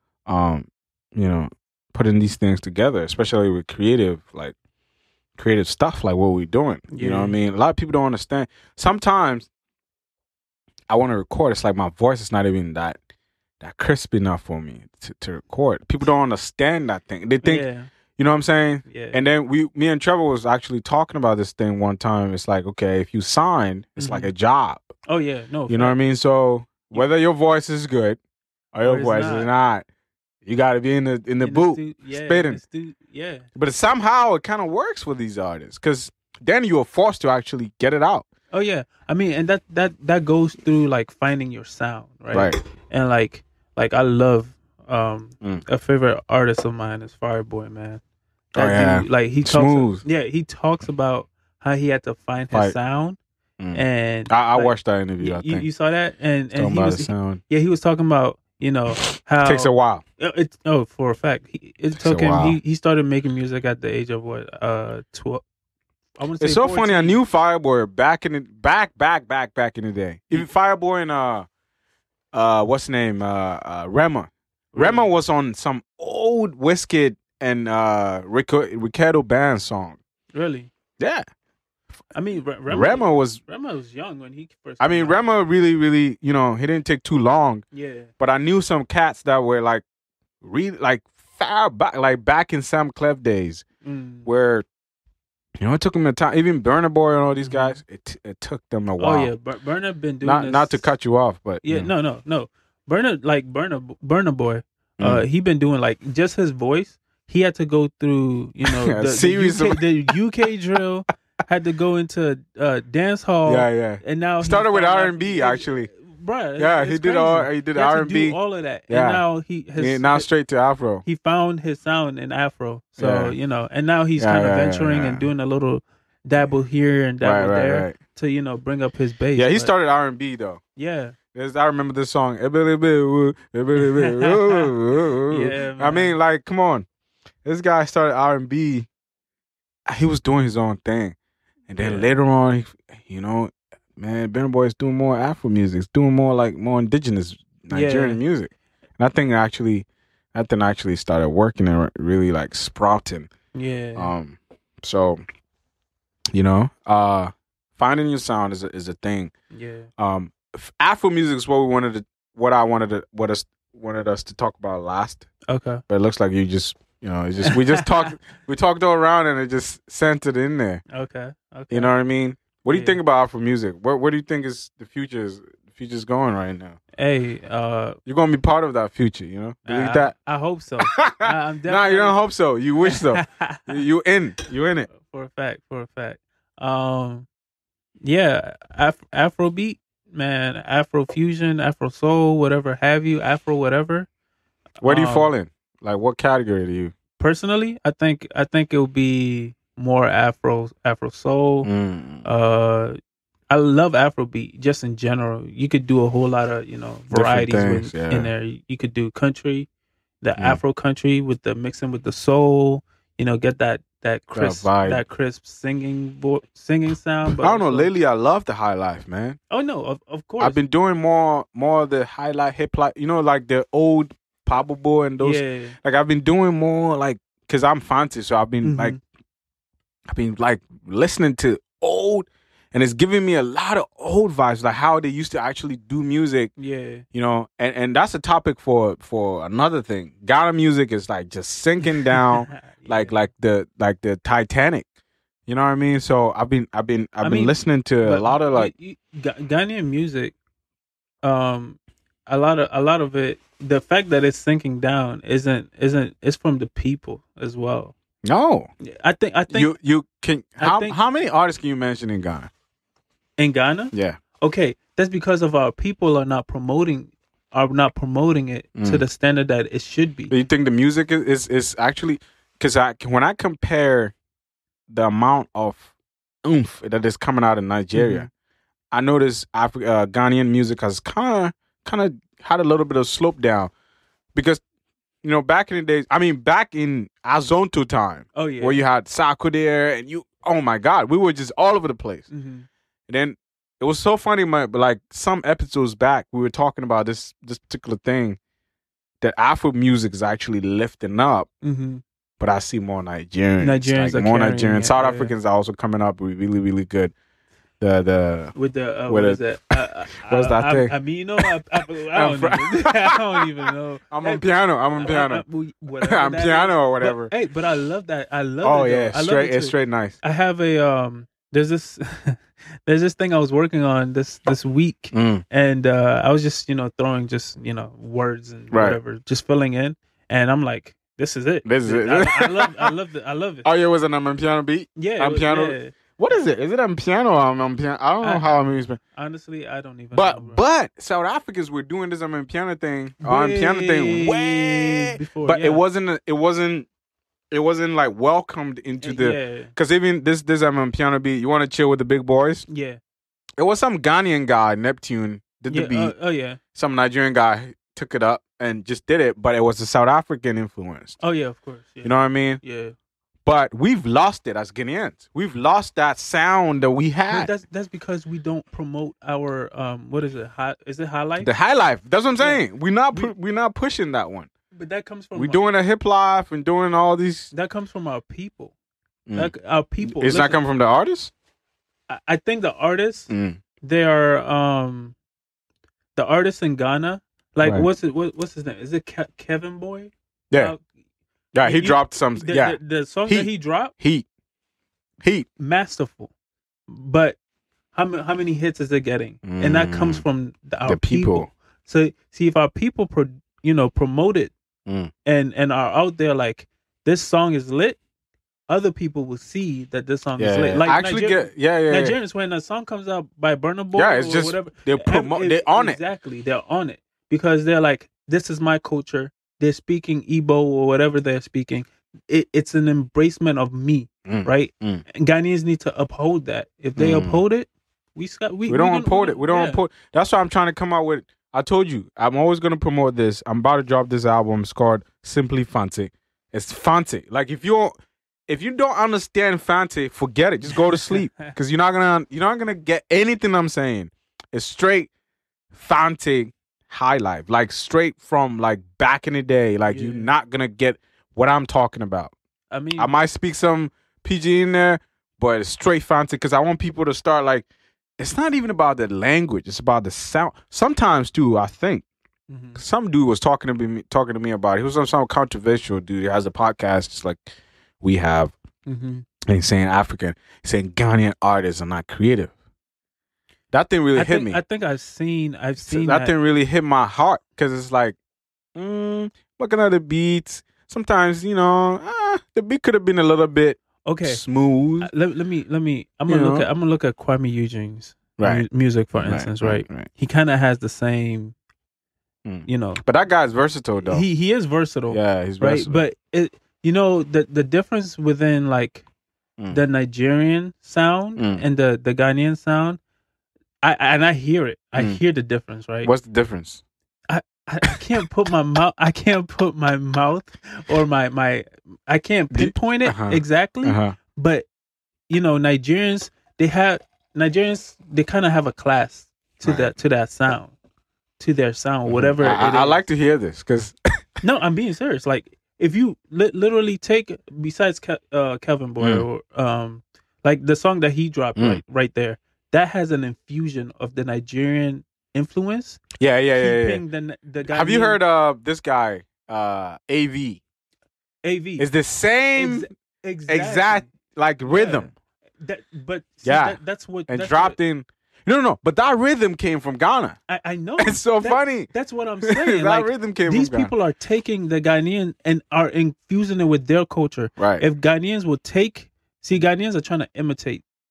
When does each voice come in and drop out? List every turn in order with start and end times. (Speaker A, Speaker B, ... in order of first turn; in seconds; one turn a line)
Speaker A: 0.3-4.5
Speaker A: 5.3-9.5
Speaker B: 6.9-7.3
Speaker A: 10.9-13.0
Speaker A: 13.6-17.6
Speaker B: 17.4-17.9
Speaker A: 18.2-24.9
Speaker B: 18.9-19.2
Speaker B: 24.0-24.3
Speaker B: 25.0-26.0
Speaker A: 25.7-28.2
Speaker A: 28.7-29.9
Speaker B: 28.8-29.5
Speaker A: 30.4-32.6
Speaker B: 31.4-33.5
Speaker A: 33.5-38.2
Speaker B: 38.5-48.0
Speaker A: 42.3-42.6
Speaker A: 48.5-50.0
Speaker B: 48.5-53.2
Speaker A: 53.6-55.6
Speaker B: 53.7-65.4
Speaker A: 56.5-57.4
Speaker A: 59.4-60.0
Speaker A: 62.0-62.6
Speaker B: 66.2-67.2
Speaker A: 66.4-71.5
Speaker A: 72.3-80.0
Speaker B: 74.7-75.1
Speaker B: 80.3-80.7
Speaker A: 81.0-81.2
Speaker B: 82.1-85.2
Speaker A: 82.7-83.4
Speaker A: 84.8-87.6
Speaker B: 87.7-88.1
Speaker A: 88.2-89.8
Speaker A: 90.4-93.6
Speaker B: 93.8-94.3
Speaker A: 94.2-94.7
Speaker A: 95.6-99.3
Speaker B: 97.4-97.8
Speaker B: 99.0-100.9
Speaker A: 100.2-101.9
Speaker B: 101.6-120.2
Speaker A: 108.6-109.8
Speaker A: 113.4-115.9
Speaker A: 116.6-118.4
Speaker A: 118.9-119.2
Speaker A: 119.8-121.0
Speaker B: 121.0-129.7
Speaker A: 123.0-123.3
Speaker A: 124.2-125.3
Speaker A: 127.2-128.0
Speaker A: 129.3-130.6
Speaker B: 130.8-131.1
Speaker A: 131.3-136.8
Speaker B: 133.7-136.2
Speaker A: 137.4-138.9
Speaker A: 139.9-141.2
Speaker A: 141.7-153.3
Speaker B: 141.8-142.1
Speaker B: 147.7-148.2
Speaker B: 153.5-154.1
Speaker A: 153.9-155.2
Speaker A: 156.3-159.3
Speaker B: 159.5-159.9
Speaker A: 160.0-165.3
Speaker B: 165.5-165.8
Speaker A: 165.9-170.8
Speaker B: 167.4-167.9
Speaker B: 170.9-171.9
Speaker A: 171.7-176.8
Speaker B: 172.7-173.0
Speaker B: 176.9-178.0
Speaker A: 178.1-180.1
Speaker B: 179.7-182.2
Speaker A: 180.8-184.9
Speaker B: 182.8-183.8
Speaker B: 184.9-187.2
Speaker B: 188.0-194.1
Speaker B: 194.8-195.3
Speaker A: 194.8-196.9
Speaker B: 197.2-201.7
Speaker A: 201.6-202.2
Speaker B: 202.2-203.0
Speaker B: 203.5-209.7
Speaker A: 207.1-208.3
Speaker B: 210.2-217.9
Speaker A: 214.3-215.0
Speaker A: 217.3-219.4
Speaker B: 219.5-220.6
Speaker A: 220.4-228.9
Speaker B: 225.2-225.8
Speaker B: 228.6-229.0
Speaker A: 230.1-236.5
Speaker B: 236.6-237.0
Speaker A: 237.1-244.8
Speaker B: 242.1-243.2
Speaker A: 245.5-248.7
Speaker B: 247.2-250.3
Speaker B: 251.2-257.9
Speaker A: 258.2-258.7
Speaker B: 258.8-259.7
Speaker A: 259.5-262.5
Speaker B: 260.6-261.0
Speaker B: 263.4-270.3
Speaker A: 263.9-264.2
Speaker A: 268.8-269.0
Speaker A: 270.3-274.1
Speaker A: 274.9-275.9
Speaker A: 276.4-278.3
Speaker B: 277.9-278.3
Speaker A: 278.9-283.7
Speaker A: 284.3-284.6
Speaker A: 285.2-292.3
Speaker B: 288.3-288.8
Speaker B: 292.3-292.6
Speaker A: 293.1-298.4
Speaker A: 299.2-301.5
Speaker B: 301.6-302.0
Speaker A: 302.4-307.1
Speaker B: 303.6-305.3
Speaker A: 307.8-308.5
Speaker B: 308.5-333.7
Speaker A: 309.1-309.5
Speaker A: 310.2-311.5
Speaker A: 312.1-313.2
Speaker A: 314.1-315.4
Speaker A: 316.0-317.3
Speaker A: 318.6-320.2
Speaker A: 325.1-325.4
Speaker A: 328.7-329.0
Speaker A: 331.6-332.9
Speaker A: 333.6-339.0
Speaker B: 335.0-336.4
Speaker B: 338.2-340.6
Speaker A: 340.1-346.9
Speaker B: 343.2-345.8
Speaker A: 347.5-352.6
Speaker B: 349.0-349.7
Speaker B: 352.7-353.0
Speaker A: 353.6-356.1
Speaker B: 355.7-356.6
Speaker A: 356.7-361.2
Speaker B: 361.2-362.9
Speaker A: 362.0-362.6
Speaker A: 363.4-367.5
Speaker B: 367.3-371.5
Speaker A: 371.4-374.5
Speaker B: 372.4-373.3
Speaker B: 374.7-375.7
Speaker A: 375.3-377.5
Speaker B: 377.5-378.7
Speaker A: 379.3-381.3
Speaker B: 379.3-380.6
Speaker B: 382.1-383.3
Speaker A: 383.3-383.6
Speaker B: 383.8-385.1
Speaker B: 386.1-390.8
Speaker A: 387.6-387.9
Speaker A: 391.5-394.2
Speaker B: 391.6-393.9
Speaker A: 395.2-395.5
Speaker B: 395.6-396.3
Speaker B: 396.9-397.4
Speaker B: 397.9-404.5
Speaker A: 399.4-400.2
Speaker A: 400.9-401.5
Speaker A: 404.9-405.1
Speaker B: 405.2-408.0
Speaker B: 408.7-429.8
Speaker A: 410.4-412.1
Speaker A: 413.9-416.0
Speaker A: 424.2-425.0
Speaker A: 426.9-427.4
Speaker A: 428.7-437.9
Speaker A: 438.5-445.1
Speaker B: 440.9-441.5
Speaker A: 445.7-452.3
Speaker B: 449.9-450.3
Speaker B: 452.7-453.1
Speaker A: 452.9-457.6
Speaker A: 458.2-462.0
Speaker B: 462.5-462.8
Speaker A: 462.8-467.4
Speaker A: 468.0-468.5
Speaker B: 468.9-469.2
Speaker A: 469.5-472.5
Speaker A: 473.7-474.6
Speaker B: 474.1-476.3
Speaker A: 475.8-478.1
Speaker A: 478.7-485.1
Speaker B: 484.0-484.4
Speaker B: 485.0-491.5
Speaker A: 486.3-486.7
Speaker A: 488.4-490.1
Speaker A: 492.4-494.2
Speaker B: 492.6-493.0
Speaker B: 494.0-499.0
Speaker A: 495.1-496.0
Speaker B: 499.7-503.0
Speaker A: 501.4-501.6
Speaker B: 503.8-506.1
Speaker A: 504.9-505.2
Speaker A: 506.0-506.8
Speaker B: 507.3-514.7
Speaker A: 512.5-514.1
Speaker B: 515.3-520.7
Speaker A: 519.6-519.9
Speaker B: 521.4-523.0
Speaker A: 522.1-524.0
Speaker B: 524.4-536.0
Speaker A: 529.0-529.2
Speaker A: 531.5-531.8
Speaker A: 536.2-537.0
Speaker B: 536.5-538.2
Speaker A: 537.6-540.6
Speaker B: 541.4-541.9
Speaker A: 541.8-542.9
Speaker B: 542.5-544.1
Speaker A: 543.5-545.1
Speaker B: 544.7-547.8
Speaker A: 546.4-550.4
Speaker B: 550.5-560.8
Speaker A: 551.0-551.9
Speaker A: 552.4-553.9
Speaker A: 557.6-557.8